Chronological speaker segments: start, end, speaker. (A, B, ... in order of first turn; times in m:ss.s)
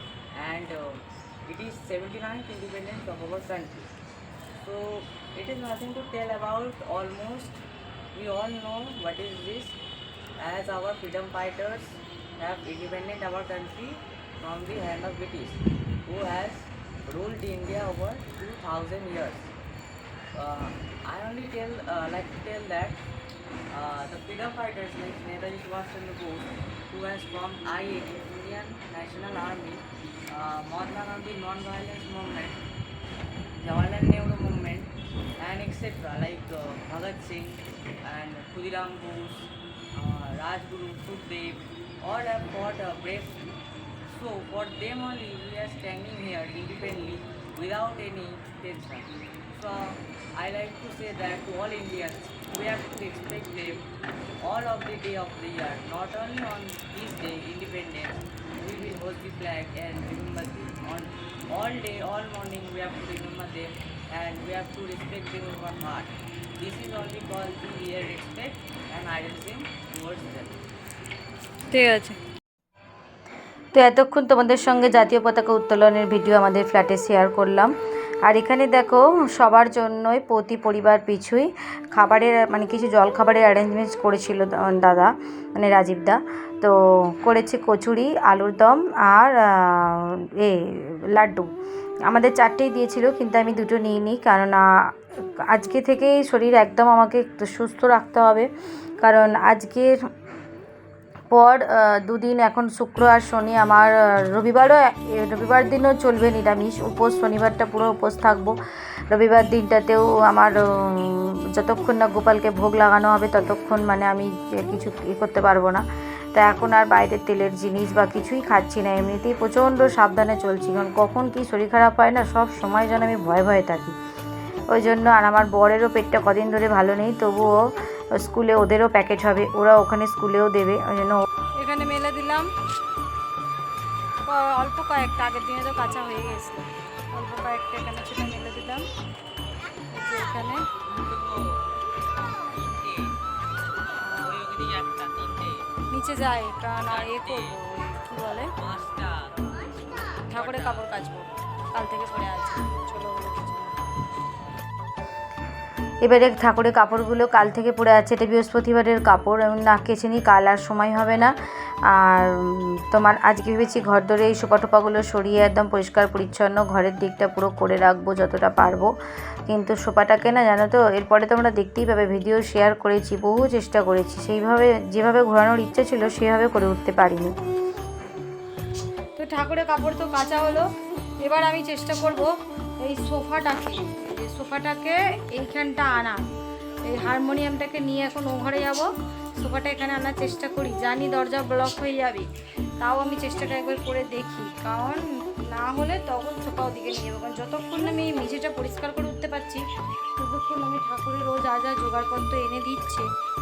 0:00.4-0:03.9 A
0:04.6-0:07.6 A
0:08.1-0:09.8 A
0:10.4-0:19.5 A
0:20.3-0:23.0 A
0:23.7-0:32.6 A
0:33.6-0:43.4 A
0:44.1-0:53.8 A
0:54.4-1:10.6 A
1:11.7-1:12.2 B
1:13.7-1:17.7 C
1:18.2-1:31.5 C
1:32.0-1:34.6 C
1:35.4-1:38.5 C
1:39.0-1:40.0 C
1:41.3-1:48.6 C
1:49.1-2:04.0 C
2:04.7-2:07.5 C
2:08.1-2:11.2 C
2:11.6-2:12.5 B
2:14.3-2:18.8 B
2:19.9-2:20.6 B
2:20.9-2:21.6 A
2:22.3-2:23.2 A
2:23.8-2:25.7 A
2:25.9-2:28.5 B
2:26.8-2:27.6 A
2:28.5-2:30.9 A
2:30.2-2:33.8 B
2:36.0-2:41.4 C
2:41.9-2:48.9 C
2:49.5-2:57.3 C
2:59.2-3:00.7 B
3:01.2-3:06.2 B
3:06.8-3:19.6 B
3:20.2-3:23.1 B